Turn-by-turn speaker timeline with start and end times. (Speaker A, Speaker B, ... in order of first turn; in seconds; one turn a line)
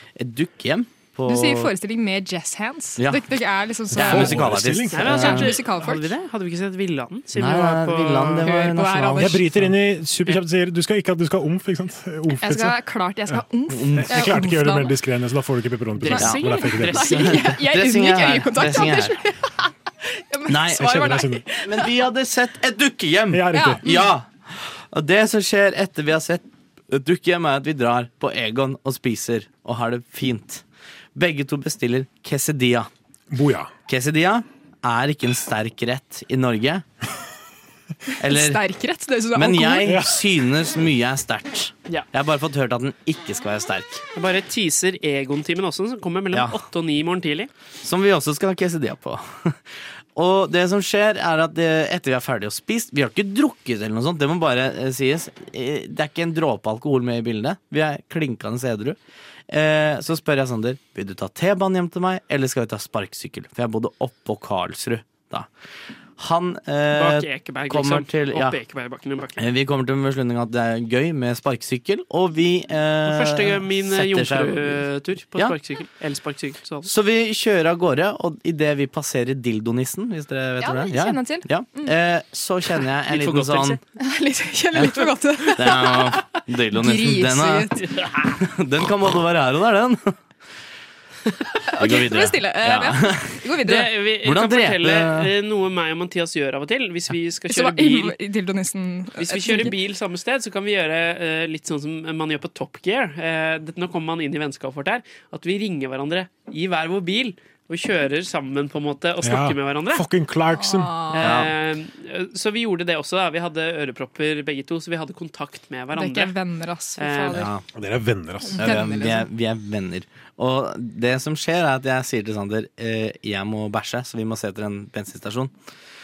Speaker A: 0.2-1.7
Speaker B: 1.3-6.1
Speaker A: 3.0-3.4
Speaker A: 3.9-5.7
Speaker C: 4.0-5.2
Speaker D: 4.9-8.5
Speaker A: 7.3-9.6
Speaker B: 8.4-9.6
Speaker C: 9.2-13.4
Speaker B: 12.3-15.0
Speaker A: 13.7-14.5
Speaker C: 13.9-17.2
Speaker D: 16.0-17.4
Speaker B: 16.0-22.0
Speaker A: 16.1-19.2
Speaker A: 20.5-24.3
Speaker C: 20.7-21.4
Speaker C: 23.3-23.8
Speaker B: 23.5-24.1
Speaker A: 24.9-30.6
Speaker A: 31.1-32.9
Speaker C: 33.3-33.7
Speaker A: 33.9-36.8
Speaker A: 38.2-38.6
Speaker B: 38.2-40.0
Speaker A: 39.3-44.0
Speaker C: 39.8-40.2
Speaker D: 44.1-47.5
Speaker A: 46.3-46.6
Speaker A: 47.8-49.6
Speaker A: 50.1-59.0
Speaker A: 59.5-65.5
Speaker A: 66.2-68.6
Speaker D: 66.9-69.4
Speaker A: 69.4-74.8
Speaker D: 73.0-76.9
Speaker A: 76.8-83.8
Speaker B: 80.6-81.9
Speaker D: 83.1-83.8
Speaker B: 84.0-87.9
Speaker A: 84.7-90.1
Speaker B: 91.7-94.0
Speaker A: 91.8-93.4
Speaker D: 93.6-98.2
Speaker A: 94.2-95.3
Speaker B: 97.5-99.8
Speaker D: 99.1-110.0
Speaker C: 109.2-111.0
Speaker B: 110.6-111.3
Speaker D: 111.1-116.4
Speaker A: 111.2-111.5
Speaker B: 115.9-117.5
Speaker D: 117.0-117.5
Speaker A: 117.3-117.6
Speaker C: 117.7-118.8
Speaker B: 118.4-119.3
Speaker A: 118.5-125.5